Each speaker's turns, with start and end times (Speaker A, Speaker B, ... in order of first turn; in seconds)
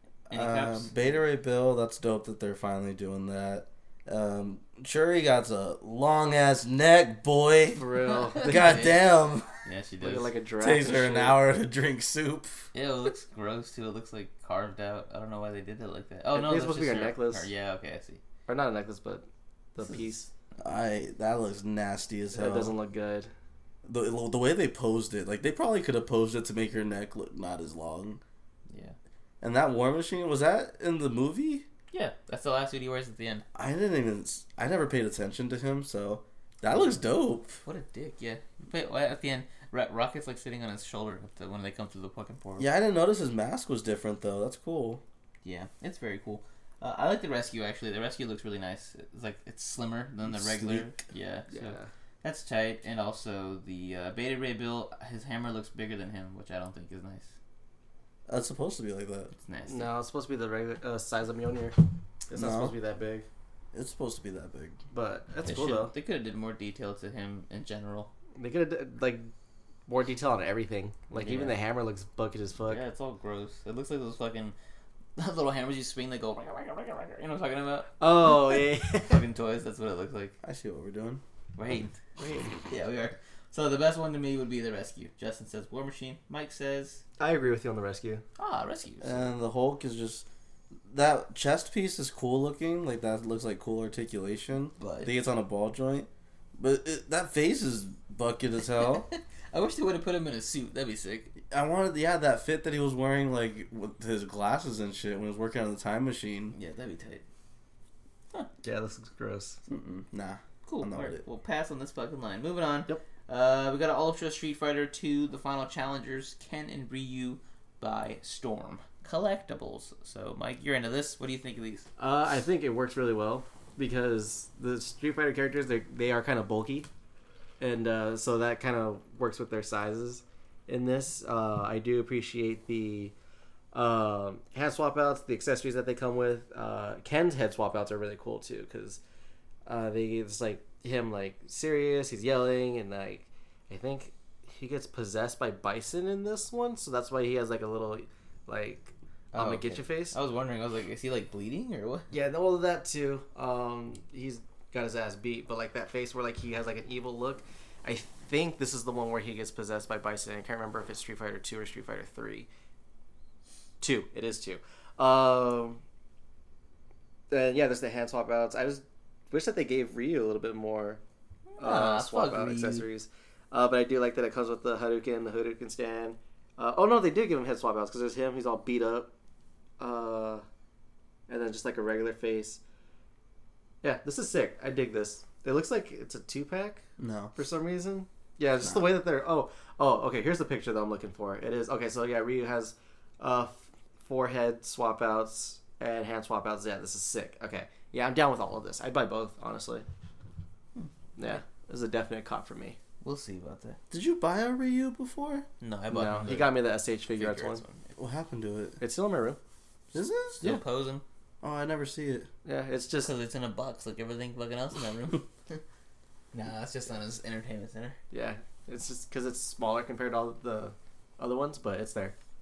Speaker A: 0.3-7.8, 8.4-9.5, 10.6-12.7, 20.6-22.7, 23.8-28.2, 29.4-31.6, 33.5-37.6, 42.6-45.0, 50.3-50.9, 58.3-59.3, 62.3-62.7, 63.7-64.8, 80.4-81.2, 89.0-90.2, 90.9-99.1, 101.4-106.5, 109.7-111.2, 187.0-187.3, 203.9-205.4, 208.0-208.8, 209.9-210.6, 211.4-212.3
Speaker B: 0.3-0.9, 8.1-9.0, 9.6-10.3, 12.7-18.2, 28.7-28.9, 31.9-33.4, 37.6-42.7, 45.4-57.3, 59.3-59.9, 65.4-68.1, 71.1-71.5, 72.7-74.5, 75.2-80.3, 81.5-81.9, 82.7-87.0, 88.4-89.3, 94.8-95.1, 98.8-101.3, 106.5-107.2, 110.7-121.9, 149.3-152.1, 171.6-172.8, 203.0-203.8, 205.6-207.9, 210.4-211.0, 213.0-215.6, 216.3-218.0
Speaker C: 7.7-8.8, 10.0-11.4, 16.3-17.5, 18.5-20.3, 22.3-23.3, 51.5-51.9, 59.7-61.8, 62.3-63.3, 64.9-65.9, 68.4-69.3, 69.9-72.8, 78.0-79.2, 82.2-82.6, 87.2-88.2, 108.6-109.6, 122.0-126.9, 127.6-133.1, 133.7-139.0, 139.7-150.2, 152.1-162.5, 163.8-165.8, 167.3-171.0, 171.6-179.1, 179.8-180.4, 181.3-182.6, 183.8-186.8, 187.3-199.8, 201.2-202.8, 205.9-207.6, 208.8-209.4, 212.4-213.1, 218.1-222.1